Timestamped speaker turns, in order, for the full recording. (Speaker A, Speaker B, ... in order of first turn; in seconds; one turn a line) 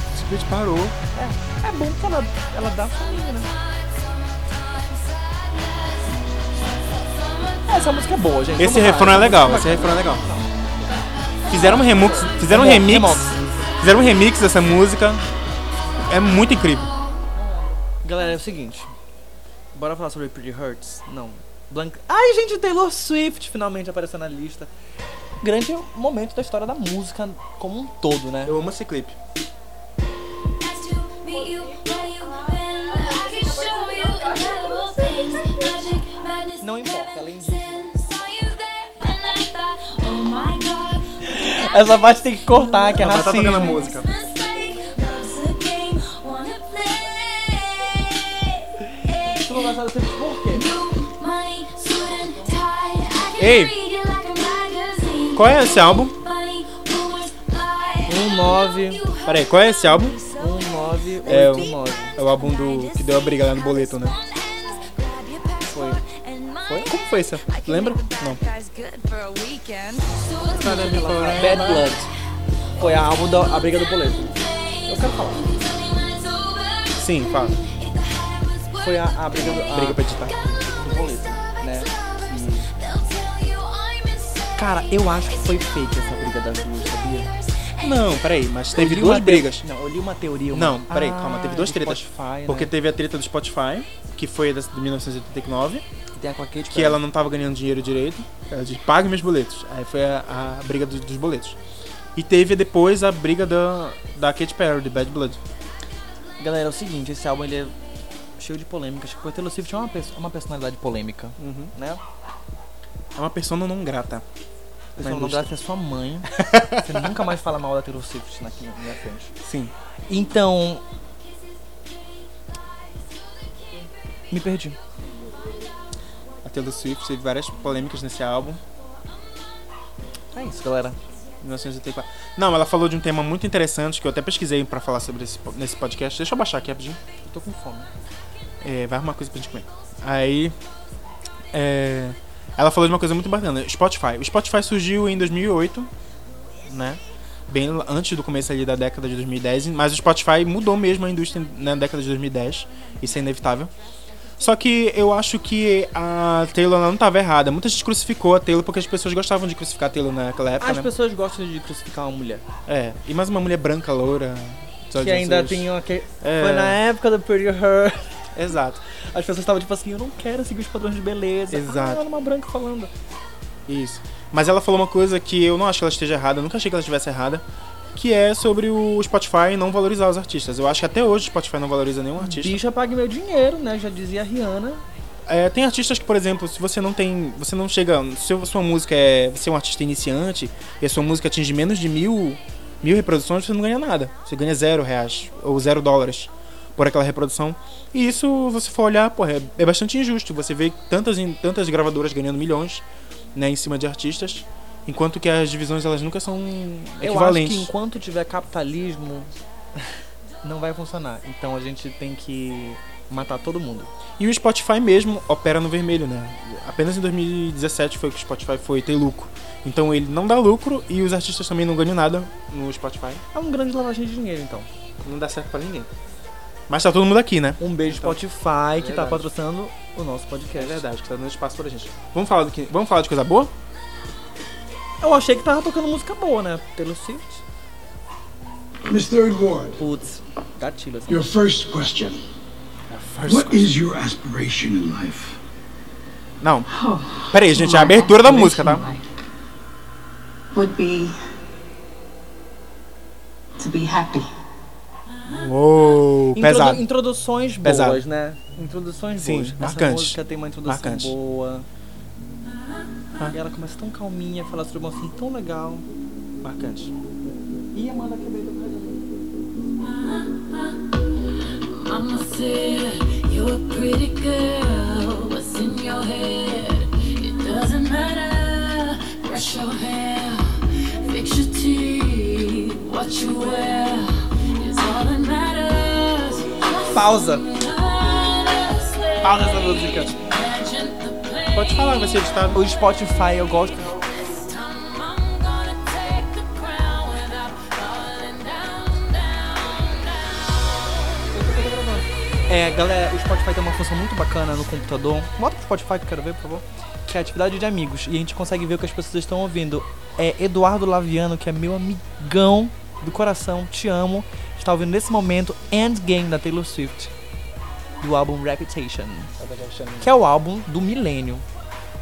Speaker A: 0.1-0.9
Speaker B: 1.1-3.5
Speaker C: 7.0-7.9
Speaker B: 7.7-10.5
Speaker A: 8.6-10.2
Speaker B: 11.5-13.7
Speaker A: 11.5-15.2
Speaker A: 16.0-16.9
Speaker B: 17.4-18.9
Speaker B: 19.7-24.7
Speaker B: 25.4-28.6
Speaker A: 28.4-29.1
Speaker C: 30.6-49.8
Speaker B: 36.6-37.9
Speaker B: 41.2-43.8
Speaker A: 42.9-44.0
Speaker B: 49.1-50.7
Speaker C: 50.5-71.6
Speaker A: 53.4-53.7
Speaker A: 55.3-56.1
Speaker B: 58.1-59.0
Speaker A: 59.2-60.2
Speaker B: 60.4-62.1
Speaker A: 61.2-64.2
Speaker B: 65.7-66.0
Speaker A: 66.7-68.4
Speaker A: 70.5-71.9
Speaker B: 70.5-72.1
Speaker C: 72.8-73.5
Speaker B: 72.8-75.4
Speaker C: 74.3-82.1
Speaker A: 77.0-77.6
Speaker B: 78.8-80.0
Speaker A: 79.3-80.5
Speaker B: 80.6-82.7
Speaker C: 82.7-85.8
Speaker B: 84.5-87.3
Speaker C: 87.4-88.1
Speaker A: 87.8-89.6
Speaker B: 88.7-92.7
Speaker A: 90.5-95.8
Speaker B: 96.2-97.0
Speaker A: 96.7-101.6
Speaker A: 102.1-105.4
Speaker B: 106.4-107.7
Speaker B: 108.4-112.0
Speaker A: 111.4-111.7
Speaker A: 113.2-114.2
Speaker B: 115.0-119.3
Speaker A: 115.0-115.5
Speaker A: 116.3-117.1
Speaker A: 119.4-119.7
Speaker B: 120.1-120.8
Speaker C: 123.4-123.9
Speaker B: 124.3-124.8
Speaker C: 125.3-125.7
Speaker A: 126.4-128.6
Speaker B: 130.3-131.0
Speaker A: 131.4-137.0
Speaker B: 137.2-137.9
Speaker A: 138.6-140.5
Speaker A: 141.5-145.9
Speaker A: 146.6-153.7
Speaker A: 154.4-160.9
Speaker B: 160.6-162.4
Speaker A: 162.7-165.7
Speaker B: 165.0-168.0
Speaker A: 166.2-166.8
Speaker A: 168.3-168.8
Speaker B: 168.9-172.9
Speaker A: 171.5-172.0
Speaker A: 173.7-177.4
Speaker A: 177.9-182.6
Speaker B: 182.2-184.8
Speaker A: 185.3-202.8
Speaker A: 203.3-207.7
Speaker B: 207.0-209.3
Speaker B: 210.4-213.9
Speaker A: 214.2-223.2
Speaker B: 223.3-224.7
Speaker A: 225.0-225.9
Speaker A: 226.7-229.3
Speaker B: 227.6-230.8
Speaker A: 230.5-233.5
Speaker B: 235.0-237.4
Speaker D: 238.8-239.8
Speaker B: 239.8-241.2
Speaker D: 241.1-242.2
Speaker A: 242.9-243.8
Speaker D: 243.2-245.4
Speaker A: 246.4-246.7
Speaker E: 246.7-249.1
Speaker A: 247.3-248.8
Speaker E: 250.5-251.2
Speaker E: 253.6-254.3
Speaker A: 255.2-256.9
Speaker B: 256.3-261.7
Speaker A: 257.6-258.0
Speaker A: 259.1-261.1
Speaker B: 263.3-265.9
Speaker A: 266.4-266.9
Speaker B: 267.7-269.0
Speaker C: 269.8-271.0
Speaker C: 271.5-292.2
Speaker B: 286.6-287.4
Speaker B: 289.2-290.1
Speaker A: 289.4-289.9
Speaker A: 291.5-292.6
Speaker B: 292.5-294.0
Speaker C: 294.0-300.6
Speaker B: 301.3-317.1
Speaker B: 318.0-319.3
Speaker A: 319.4-320.1
Speaker B: 320.0-321.4